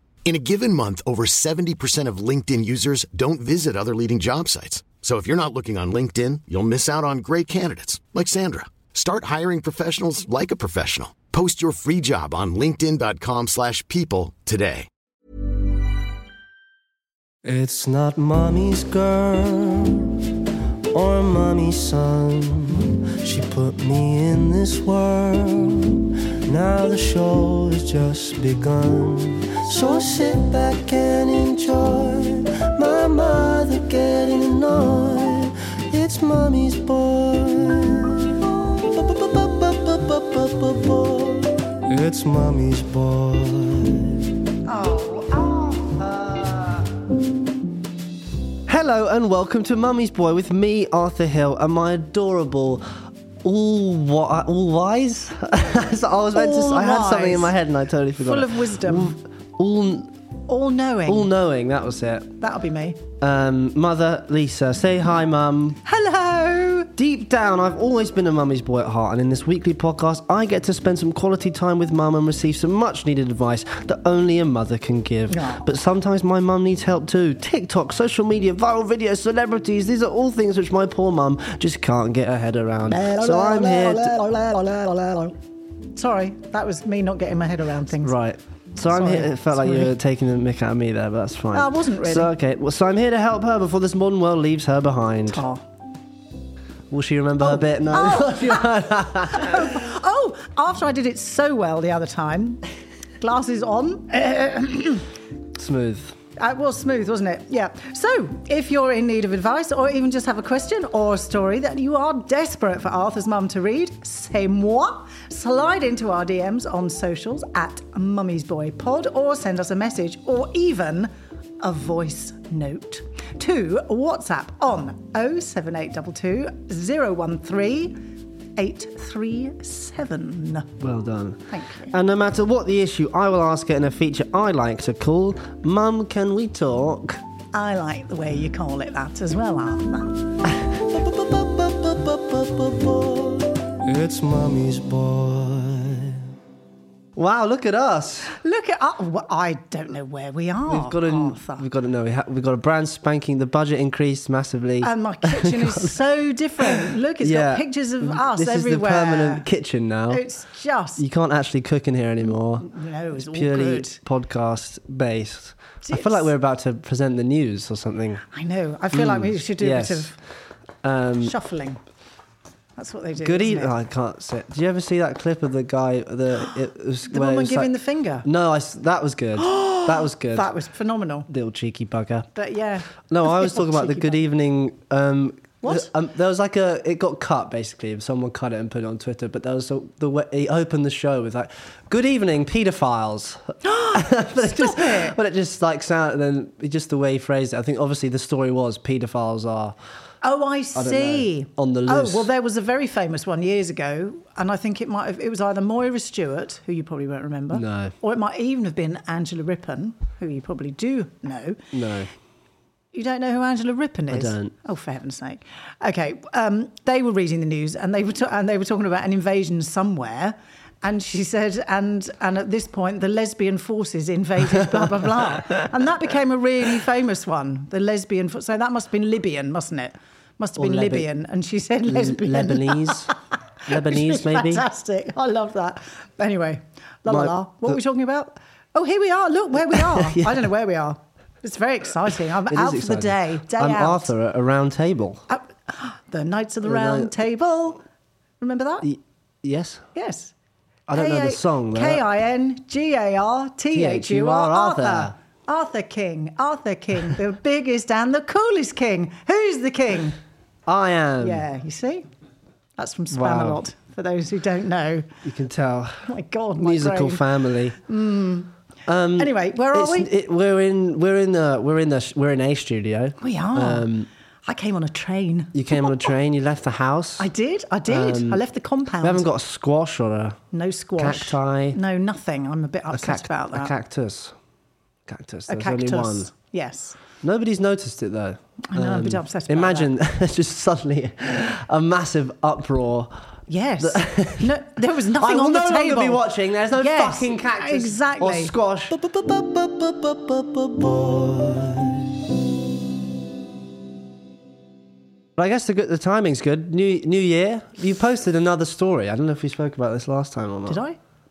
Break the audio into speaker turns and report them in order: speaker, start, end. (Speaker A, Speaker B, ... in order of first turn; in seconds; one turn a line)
Speaker A: 0.2-14.9
Speaker B: 17.4-20.4
Speaker B: 20.9-44.4
Speaker C: 44.7-46.0
Speaker B: 45.9-46.9
Speaker B: 48.7-60.1
Speaker C: 56.3-57.5
Speaker C: 58.2-59.2
Speaker C: 60.5-61.3
Speaker B: 61.1-62.3
Speaker C: 62.4-63.0
Speaker B: 63.2-65.8
Speaker C: 65.8-66.9
Speaker B: 67.0-84.2
Speaker C: 75.3-75.6
Speaker C: 82.9-85.4
Speaker C: 85.9-88.2
Speaker B: 88.0-95.4
Speaker C: 88.9-89.9
Speaker C: 91.5-92.3
Speaker C: 95.3-95.6
Speaker B: 96.9-99.8
Speaker C: 97.4-102.6
Speaker C: 103.2-105.1
Speaker B: 105.5-106.2
Speaker C: 106.4-128.0
Speaker C: 128.6-130.7
Speaker B: 130.8-137.2
Speaker C: 131.5-131.9
Speaker C: 137.5-140.2
Speaker B: 140.4-146.3
Speaker B: 147.2-148.4
Speaker C: 148.4-151.7
Speaker B: 150.7-156.0
Speaker C: 154.8-159.5
Speaker B: 156.6-160.2
Speaker C: 160.1-161.0
Speaker B: 161.0-168.2
Speaker C: 162.6-164.0
Speaker C: 165.8-166.3
Speaker C: 168.3-170.2
Speaker B: 168.9-170.1
Speaker B: 170.8-171.3
Speaker C: 171.2-171.8
Speaker C: 172.8-173.7
Speaker B: 173.2-177.7
Speaker C: 177.1-178.3
Speaker B: 178.2-180.5
Speaker C: 179.4-181.3
Speaker B: 181.3-182.3
Speaker C: 182.3-184.2
Speaker B: 183.1-199.8
Speaker C: 185.6-185.9
Speaker C: 193.6-195.2
Speaker C: 200.2-211.6
Speaker B: 200.8-202.3
Speaker B: 207.5-207.9
Speaker B: 211.7-212.1
Speaker C: 212.9-244.1
Speaker B: 214.1-214.5
Speaker B: 224.5-225.7
Speaker B: 230.6-231.1
Speaker B: 231.9-233.1
Speaker B: 233.7-234.7
Speaker B: 237.1-237.8
Speaker B: 239.7-240.5
Speaker B: 242.5-245.2
Speaker C: 245.3-247.8
Speaker B: 246.6-247.2
Speaker C: 248.4-248.9
Speaker B: 248.8-249.8
Speaker C: 249.9-250.3
Speaker B: 250.9-252.0
Speaker C: 250.9-260.2
Speaker B: 253.7-255.2
Speaker B: 260.6-261.4
Speaker C: 261.2-262.1
Speaker C: 262.8-265.1
Speaker B: 263.1-263.6
Speaker B: 265.2-267.8
Speaker C: 266.1-267.2
Speaker C: 267.8-268.5
Speaker B: 268.9-274.1
Speaker C: 269.2-270.1
Speaker C: 273.2-273.9
Speaker C: 274.4-276.1
Speaker B: 275.5-277.3
Speaker C: 277.2-279.3
Speaker B: 277.9-278.4
Speaker B: 279.0-280.4
Speaker C: 280.5-283.7
Speaker B: 281.0-281.8
Speaker B: 282.9-284.3
Speaker B: 285.1-286.3
Speaker C: 285.5-287.0
Speaker B: 287.2-294.6
Speaker C: 288.7-289.9
Speaker C: 293.5-298.5
Speaker B: 295.1-302.3
Speaker B: 305.4-310.8
Speaker C: 310.7-311.0